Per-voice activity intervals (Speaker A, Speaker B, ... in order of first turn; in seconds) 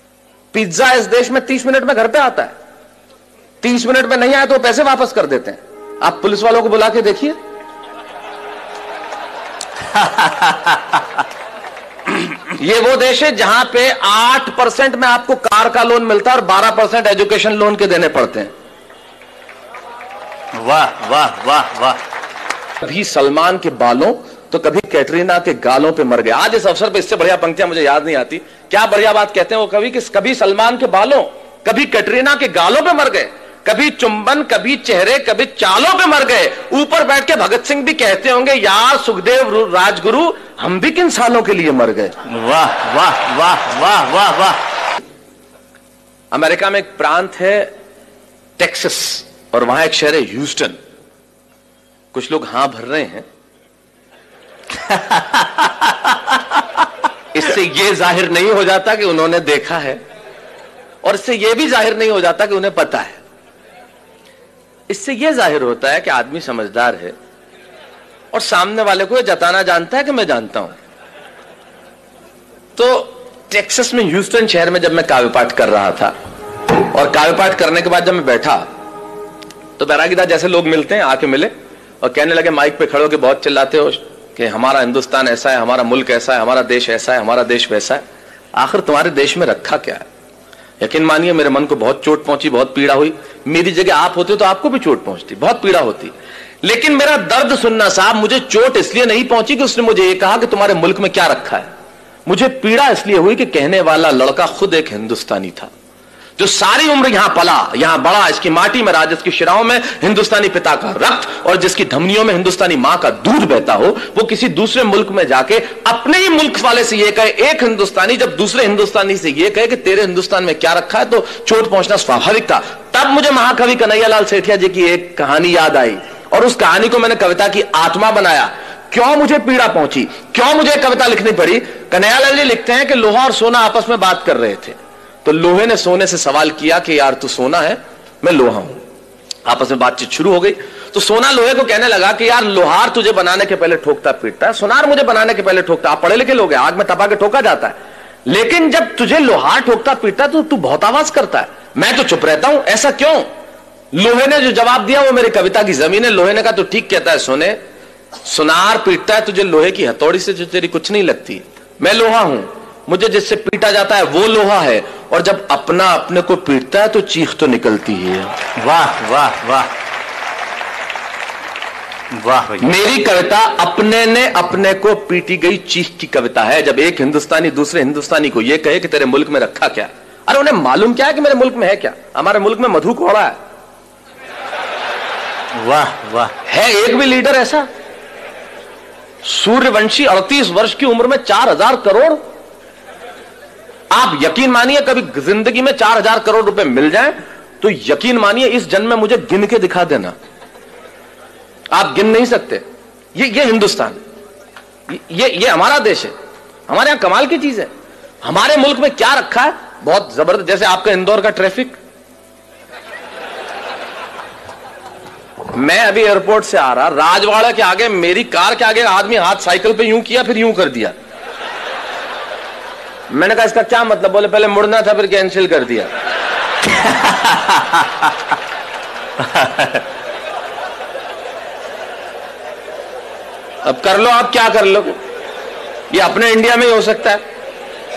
Speaker A: 0.5-2.5, 3.6-7.4, 12.5-18.5, 22.8-42.1, 46.3-47.7, 48.6-50.8, 52.1-53.2, 57.3-60.0, 61.0-63.2, 64.9-67.1, 68.3-70.7, 72.8-76.1, 76.8-78.7, 79.8-88.0, 88.5-90.0, 90.8-101.7, 102.2-105.7, 106.4-138.8, 139.4-153.3, 153.9-157.6, 158.2-168.4, 172.6-183.4, 186.4-187.7, 189.2-192.2, 193.9-200.1, 201.7-202.6, 203.1-204.0, 204.9-206.1, 206.7-207.7, 208.2-211.8, 215.5-220.9, 223.1-225.9, 233.6-234.9, 235.9-237.2
Speaker B: 9.9-11.0, 20.5-22.0, 42.2-44.6, 54.8-56.1, 168.6-169.7, 172.1-172.7, 185.5-186.3, 226.8-227.9, 229.2-229.8